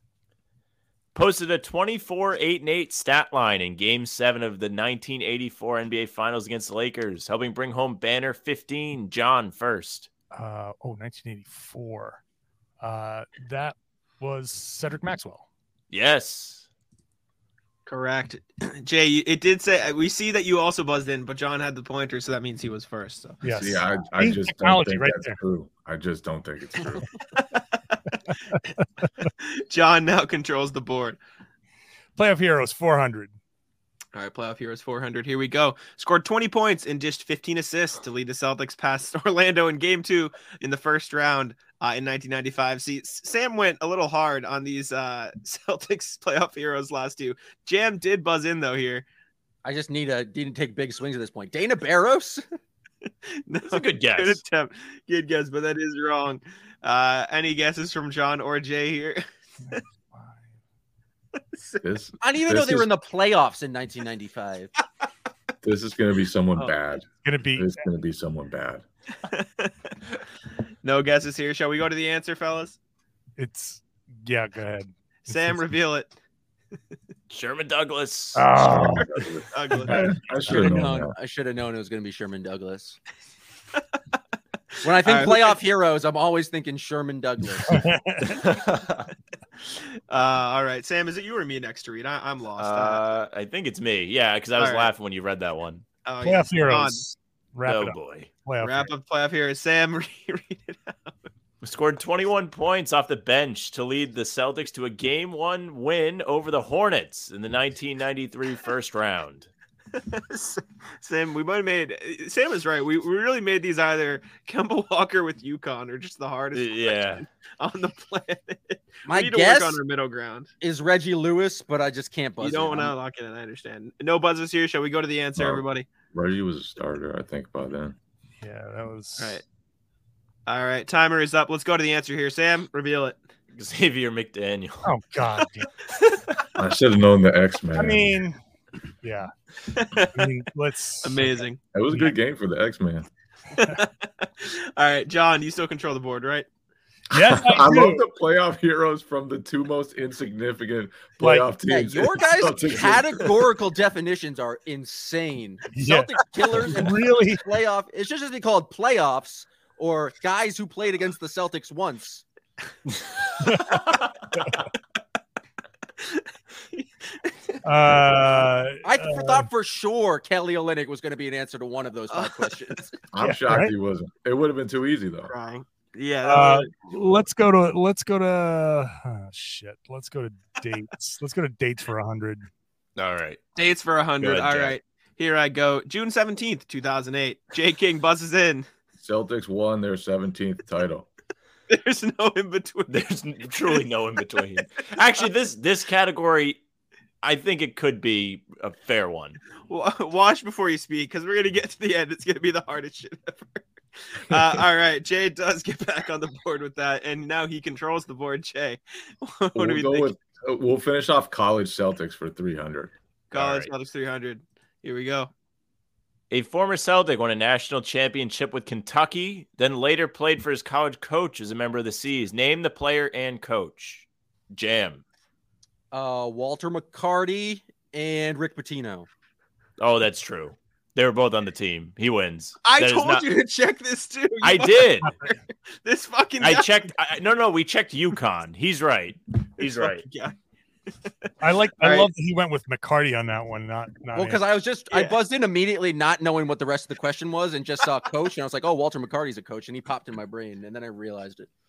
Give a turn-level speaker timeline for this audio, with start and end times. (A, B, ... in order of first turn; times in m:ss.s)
0:01.1-0:10.1 A
0:10.3-0:12.2 B
0:12.8-0:15.4 B
0:15.9-0:16.6 A
0:17.8-0:23.4 C
0:23.4-0:25.4 B
0:23.5-0:27.2 D
0:27.4-0:28.3 C
0:29.4-0:31.2 C
0:32.2-0:33.3 B
0:34.1-0:49.0 C
0:49.6-0:52.4 E
0:53.5-0:59.8 C
0:53.7-0:54.4 A
0:59.7-1:00.4 B
1:01.5-1:01.8 C
1:01.8-1:02.9 D
1:02.2-1:04.7 E
1:05.6-1:08.8 D
1:07.1-1:07.8 B
1:09.2-1:09.9 C
1:10.8-1:12.8 C
1:13.4-1:15.6 B
1:15.3-1:16.1 C
1:17.3-1:18.4 A
1:18.3-1:20.8 B
1:18.6-1:21.1 D
1:19.5-1:20.2 C
1:20.4-1:23.0 E
1:24.8-1:27.9 E
1:24.9-1:25.6 C
1:27.6-1:28.4 B
1:28.2-1:29.1 A
1:29.6-1:33.2 C
1:32.6-1:35.8 A
1:34.6-1:34.9 C
1:36.0-1:37.1 C
1:36.2-1:38.9 B
1:37.6-1:38.3 A
1:38.6-1:41.3 C
1:41.6-1:49.5 A
1:49.9-2:00.5 C
1:56.5-1:57.2 A
1:59.1-1:59.8 E
2:00.6-2:02.9 E
2:02.4-2:05.9 C
2:05.4-2:08.0 D
2:08.4-2:09.4 B
2:09.2-2:09.4 C
2:10.5-2:13.2 C
2:13.5-2:14.9 A
2:14.8-2:15.7 B
2:15.9-2:16.2 C
2:16.6-2:18.2 D
2:17.7-2:18.4 B
2:19.0-2:19.3 B
2:19.7-2:20.3 C
2:20.0-2:21.4 B
2:21.0-2:21.6 C
2:21.7-2:23.1 D
2:23.6-2:26.5 C
2:27.1-2:28.0 B
2:27.1-2:33.5 D
2:31.2-2:31.5 B
2:31.6-2:42.2 E
2:35.7-2:37.4 B
2:43.4-2:43.8 B
2:44.4-2:44.6 B
2:46.0-2:47.6 C
2:47.6-2:49.5 B
2:48.8-2:53.0 E
2:52.1-2:52.7 C
2:53.1-2:55.3 D
2:53.2-2:53.7 B
2:55.3-2:56.7 C
2:56.2-3:02.5 B
3:03.0-3:03.4 A
3:03.6-3:08.7 C
3:04.2-3:04.8 A
3:09.0-3:11.1 D
3:11.7-3:13.1 C
3:12.9-3:16.6 A
3:17.2-3:19.4 A
3:19.7-3:30.1 C
3:29.5-3:32.9 D
3:33.3-3:35.3 C
3:33.3-3:33.7 A
3:36.3-3:45.0 A
3:45.9-3:49.1 E
3:49.8-3:53.3 A
3:52.6-3:56.9 C
3:54.4-3:55.2 A
3:56.4-4:00.0 A
3:59.6-4:00.3 C
4:01.0-4:02.1 C
4:01.4-4:04.4 B
4:04.1-4:11.5 E
4:04.9-4:05.2 C